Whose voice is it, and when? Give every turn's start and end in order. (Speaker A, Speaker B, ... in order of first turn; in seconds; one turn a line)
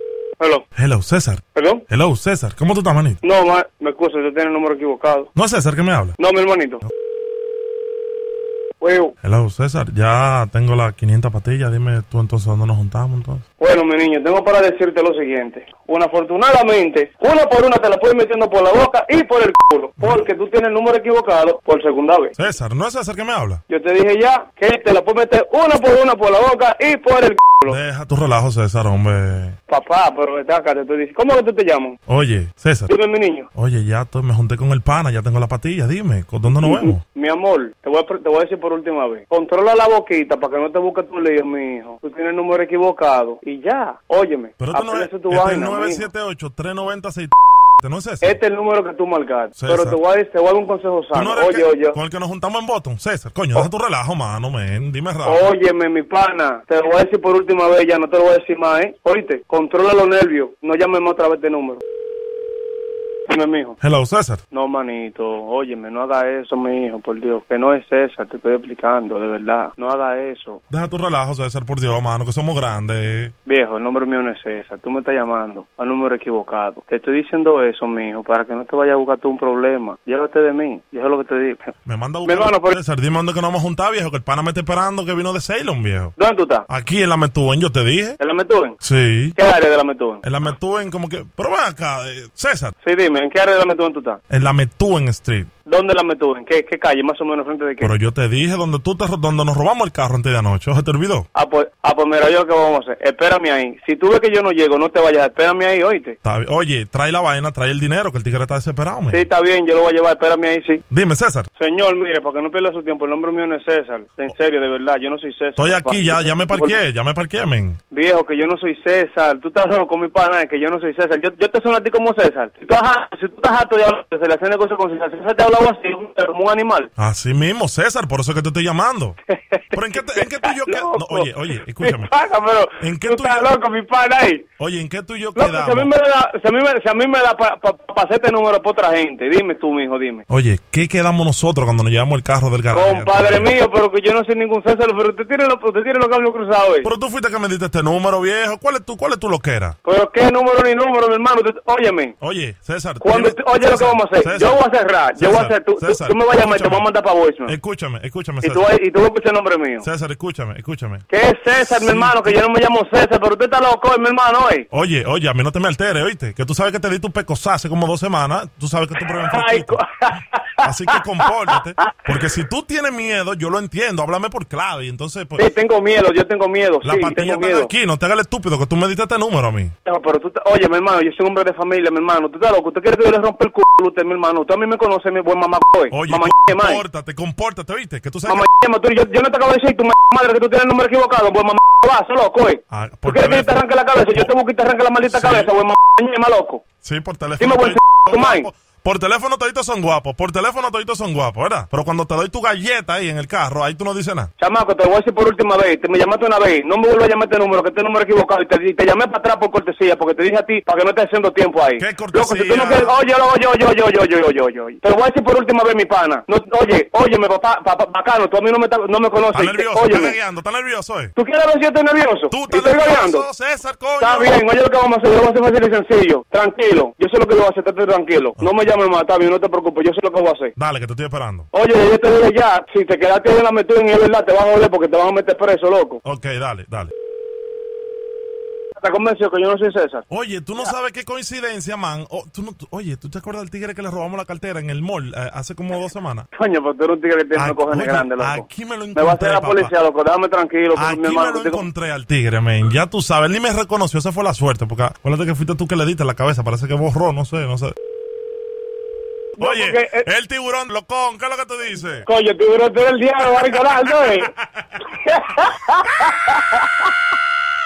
Speaker A: 0.4-0.7
Speaker B: 0.8-3.2
Speaker A: 1.5-1.9
Speaker A: 3.2-5.3
Speaker B: 5.3-6.2
Speaker A: 6.2-6.8
Speaker A: 8.8-9.2
Speaker B: 9.2-13.4
Speaker A: 13.6-22.4
Speaker B: 20.0-20.3
Speaker B: 22.4-23.6
Speaker A: 23.7-27.8
Speaker B: 27.7-29.6
Speaker A: 29.7-32.0
Speaker B: 32.1-32.9
Speaker A: 32.9-33.5
Speaker B: 33.5-37.0
Speaker A: 36.5-46.1
Speaker B: 44.6-48.4
Speaker A: 48.2-52.0
Speaker B: 49.6-50.0
Speaker B: 51.1-55.5
Speaker A: 55.2-61.8
Speaker A: 63.3-63.8
Speaker B: 63.8-64.4
Speaker A: 64.5-70.6
Speaker B: 70.7-73.3
Speaker A: 73.5-81.7
Speaker B: 81.9-86.2
Speaker A: 82.2-82.8
Speaker A: 86.2-86.7
Speaker B: 86.7-88.2
Speaker A: 88.2-88.8
Speaker B: 88.8-89.4
Speaker A: 89.4-90.2
Speaker B: 90.2-92.7
Speaker A: 92.8-94.2
Speaker B: 94.3-95.5
Speaker A: 95.7-97.9
Speaker B: 97.8-101.3
Speaker A: 101.3-106.2
Speaker B: 106.2-109.2
Speaker A: 109.1-110.8
Speaker B: 110.9-111.5
Speaker A: 111.6-116.8
Speaker B: 115.6-117.8
Speaker A: 117.9-126.9
Speaker B: 127.0-129.2
Speaker A: 129.3-134.4
Speaker B: 129.7-132.1
Speaker B: 132.8-133.5
Speaker B: 134.6-135.9
Speaker A: 135.4-140.2
Speaker B: 140.3-143.6
Speaker A: 142.7-146.9
Speaker B: 146.8-149.8
Speaker A: 149.8-152.2
Speaker B: 152.2-154.6
Speaker A: 153.0-157.6
Speaker B: 155.2-156.9
Speaker B: 157.5-158.7
Speaker A: 158.4-159.9
Speaker B: 159.8-161.1
Speaker A: 161.1-164.7
Speaker B: 161.6-162.4
Speaker B: 164.7-169.8
Speaker A: 169.3-172.1
Speaker B: 170.6-175.5
Speaker A: 175.4-177.7
Speaker B: 176.8-179.7
Speaker A: 179.8-186.8
Speaker B: 185.9-188.5
Speaker A: 188.3-196.6
Speaker B: 192.7-193.6
Speaker B: 195.1-195.5
Speaker B: 196.8-204.3
Speaker A: 197.4-198.5
Speaker A: 204.4-220.2
Speaker B: 211.8-212.9
Speaker B: 219.3-221.1
Speaker A: 221.2-223.3
Speaker B: 222.3-224.4
Speaker A: 224.0-230.5
Speaker B: 230.6-231.5
Speaker A: 231.5-236.0
Speaker B: 236.0-236.9
Speaker A: 238.8-240.1
Speaker B: 240.1-246.3
Speaker A: 246.3-251.7
Speaker B: 247.4-249.7
Speaker B: 250.8-257.7
Speaker A: 259.4-260.1
Speaker B: 259.4-262.1
Speaker A: 262.1-264.3
Speaker B: 263.4-264.8
Speaker A: 264.9-266.8